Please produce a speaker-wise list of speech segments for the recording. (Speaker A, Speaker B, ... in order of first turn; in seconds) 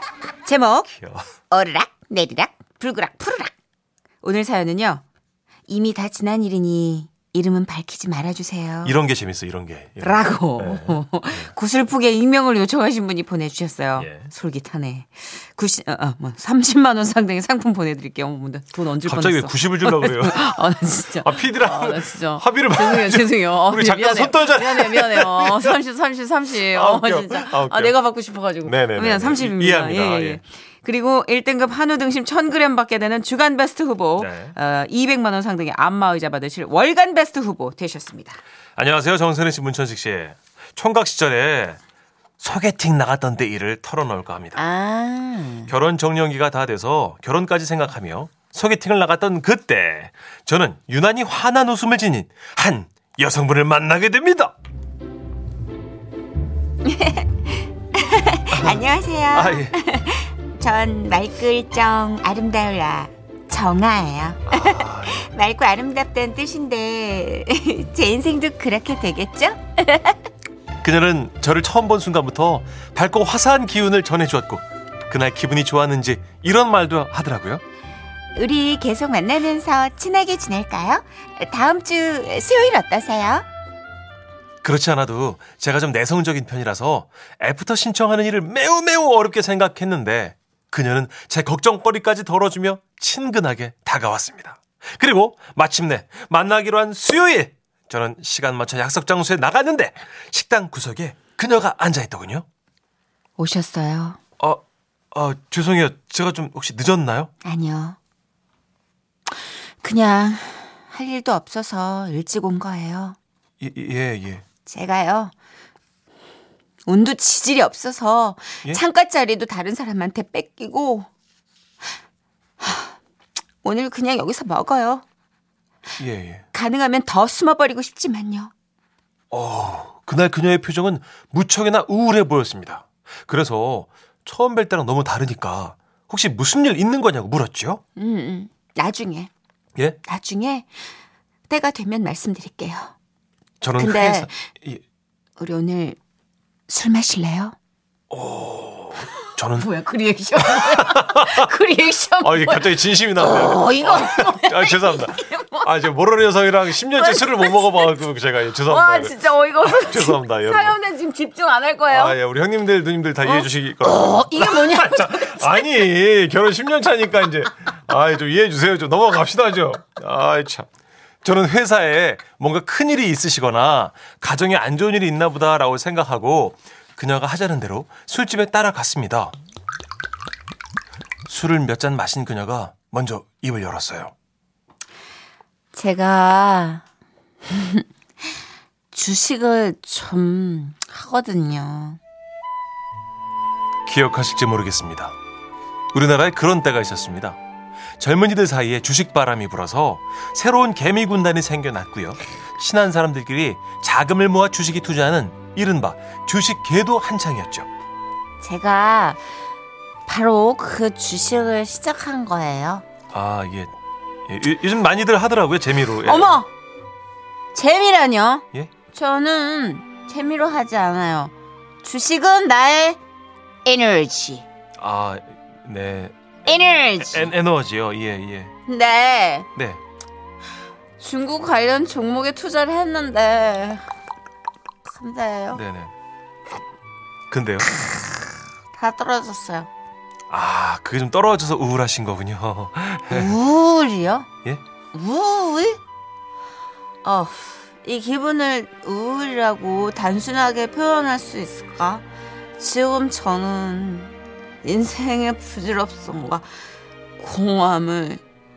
Speaker A: 0.4-0.9, 1.5-3.5, 4.2-5.0, 5.7-9.0, 10.0-38.4, 44.5-45.7, 56.8-70.2, 78.3-83.5, 103.4-104.2, 107.4-108.0, 109.8-113.2, 114.6-115.3, 116.8-121.1, 122.6-123.0, 123.6-125.0, 126.5-128.5, 137.9-139.3, 140.0-140.7, 141.5-142.9, 143.8-144.5, 145.4-146.0, 146.7-147.5, 149.5-155.7, 156.9-158.1, 158.6-162.2, 163.2-165.9, 185.7-186.8, 187.5-187.8, 188.9-192.0, 208.4-209.2, 210.1-212.8, 216.0-216.5, 217.5-223.0, 223.6-224.4, 226.4-227.3, 228.7-229.5, 231.0-233.8, 234.8-235.6, 237.6-239.7, 243.1-244.3, 244.9-245.8, 247.0-252.1, 252.6-256.4, 257.2-258.2
Speaker B: 0.9-1.2, 8.8-11.5, 13.9-14.3, 19.0-25.8, 26.6-27.9, 28.6-30.4, 34.2-34.5, 38.8-41.8, 42.4-44.6, 45.7-54.5, 58.5-59.8, 64.5-65.2, 70.8-77.6, 84.6-102.4, 105.1-107.3, 113.6-114.4, 126.0-126.4, 129.3-137.8, 143.6-144.8, 148.1-149.7, 150.4-151.5, 152.2-160.8, 161.9-170.7, 171.2-179.3, 181.3-184.1, 193.8-195.2, 195.9-197.4, 198.0-207.7, 213.1-213.7, 214.3-216.4, 224.8-228.5, 229.6-229.8, 235.5-235.9, 237.3-237.7, 240.3-243.3